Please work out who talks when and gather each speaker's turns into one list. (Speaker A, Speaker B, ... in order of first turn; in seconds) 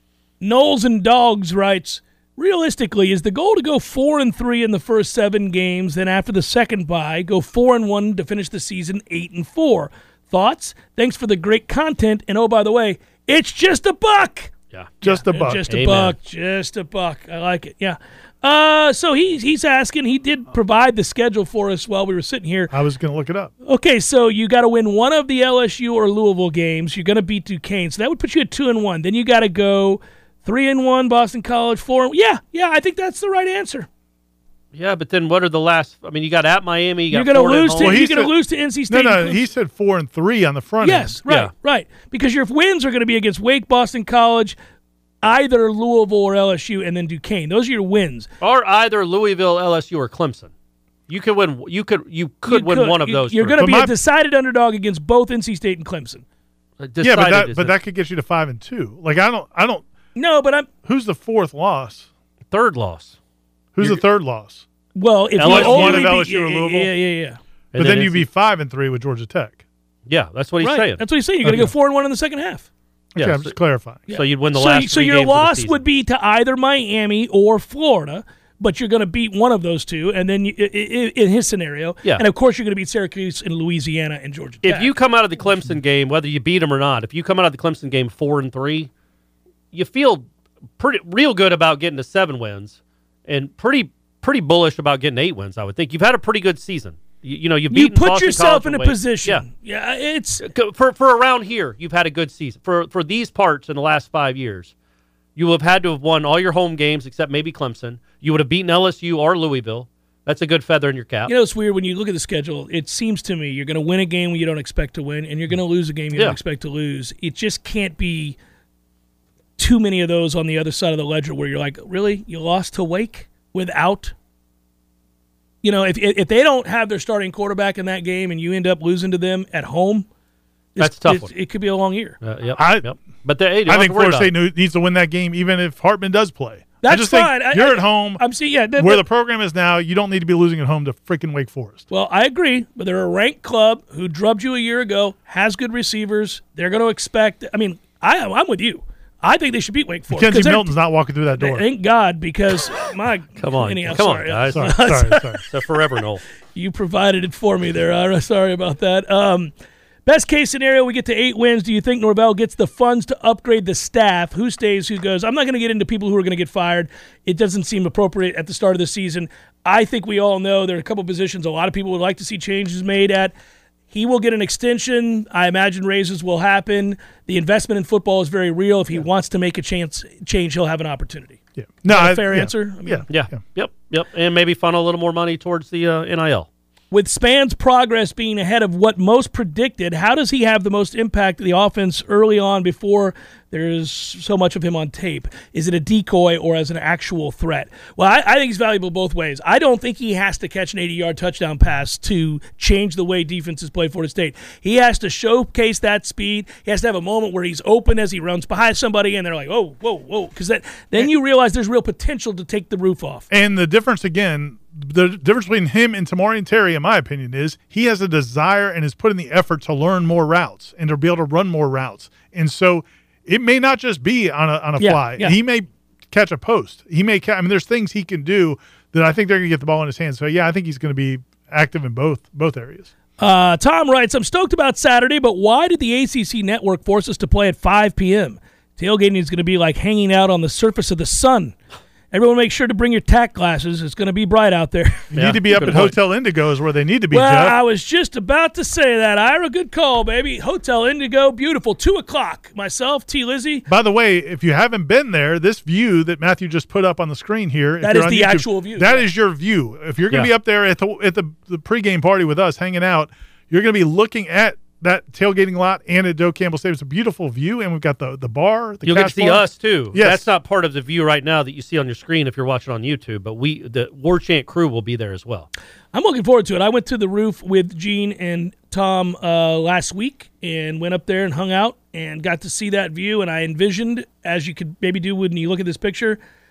Speaker A: 0.4-14.5, 15.0-22.7, 23.6-33.9, 37.1-39.4, 40.8-44.5, 45.2-48.3, 52.5-56.2, 60.1-60.7, 64.9-67.4, 70.6-72.7, 74.1-84.9, 97.7-100.4, 111.2-118.4, 119.6-124.1, 125.6-130.1, 130.8-132.2, 136.8-139.0, 141.9-150.8, 151.3-155.4, 156.5-159.5, 160.1-173.3, 173.9-183.1, 186.9-213.2, 224.8-225.4, 233.2-241.6, 242.1-245.9, 247.1-253.7, 257.8-259.1, 275.9-286.2
Speaker B: 14.7-15.0, 15.7-16.1, 34.7-38.0, 48.4-50.5, 51.1-53.6, 56.8-57.7, 62.5-63.1, 65.4-66.1, 67.7-68.2, 70.1-71.0, 73.2-73.5, 74.1-75.8, 84.6-88.9, 89.7-90.3, 90.8-99.4, 100.4-104.7, 105.3-111.3, 130.8-131.3, 132.2-134.3, 153.4-154.7, 155.5-156.2, 183.1-186.5, 245.1-245.7, 268.8-275.5
Speaker C: 15.0-15.6, 22.7-23.5, 37.8-38.4, 38.9-41.2, 53.6-53.9, 57.0-59.9, 60.8-62.1, 63.7-64.7, 65.4-66.9, 67.7-69.6, 71.4-71.7, 73.1-74.1, 132.6-132.9, 133.6-138.2, 138.8-141.8, 150.1-151.6, 154.5-155.4, 181.6-183.4, 213.3-232.9, 245.1-247.6, 253.7-270.3